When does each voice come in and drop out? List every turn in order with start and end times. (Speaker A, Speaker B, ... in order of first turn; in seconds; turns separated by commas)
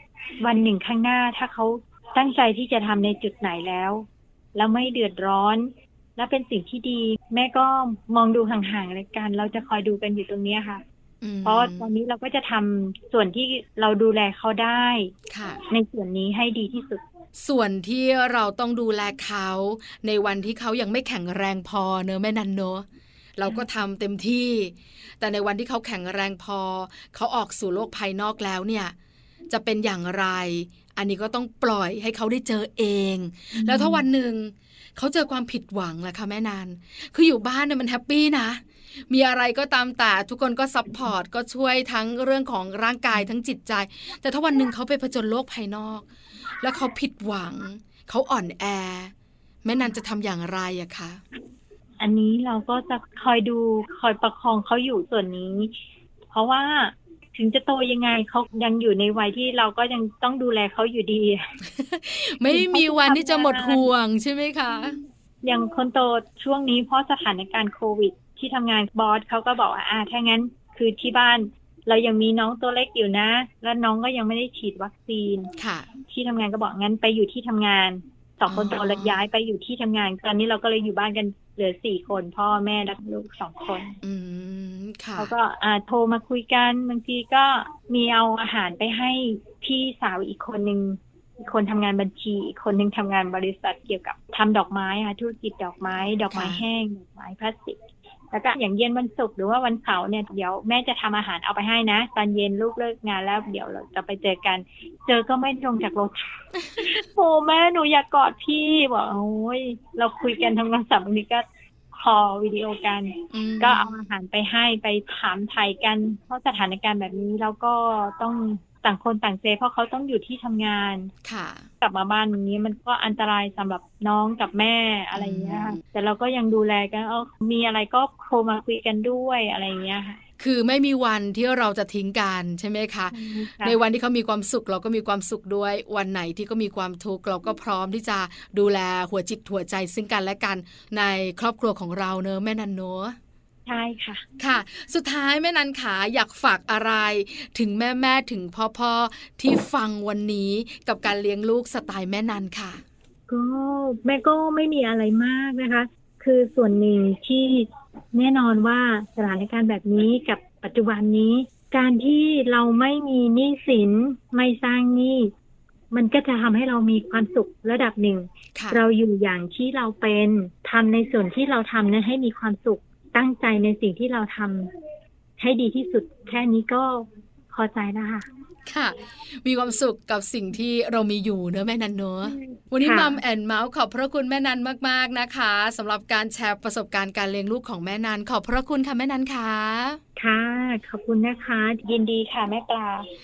Speaker A: 0.4-10.8, Speaker B: 11.2-11.9, Speaker A: 11.4-15.1, Speaker B: 15.3-15.6, Speaker A: 15.7-17.0, Speaker B: 17.4-28.9, Speaker B: 29.5-46.1, Speaker A: 33.5-34.0, Speaker B: 46.6-49.1, Speaker B: 49.6-51.2, Speaker A: 52.0-55.7, Speaker A: 56.3-61.4, Speaker B: 61.7-65.0, Speaker A: 62.5-63.9, Speaker A: 65.4-75.5, Speaker B: 75.6-75.9, Speaker A: 76.0-84.0, Speaker B: 78.5-79.2, Speaker B: 84.0-85.3, Speaker A: 85.2-97.8, Speaker B: 95.9-96.6, Speaker A: 98.3-106.1, Speaker A: 106.8-121.1, Speaker B: 113.3-113.9, Speaker B: 121.2-121.7, Speaker A: 121.8-130.2, Speaker B: 125.1-125.8, Speaker B: 130.4-143.2, Speaker A: 133.1-133.8, Speaker A: 143.7-144.2, Speaker B: 144.4-152.8, Speaker A: 153.3-165.3, Speaker A: 165.9-174.7, Speaker A: 175.4-178.2, Speaker B: 178.7-190.0, Speaker A: 182.2-183.2, Speaker A: 190.2-193.1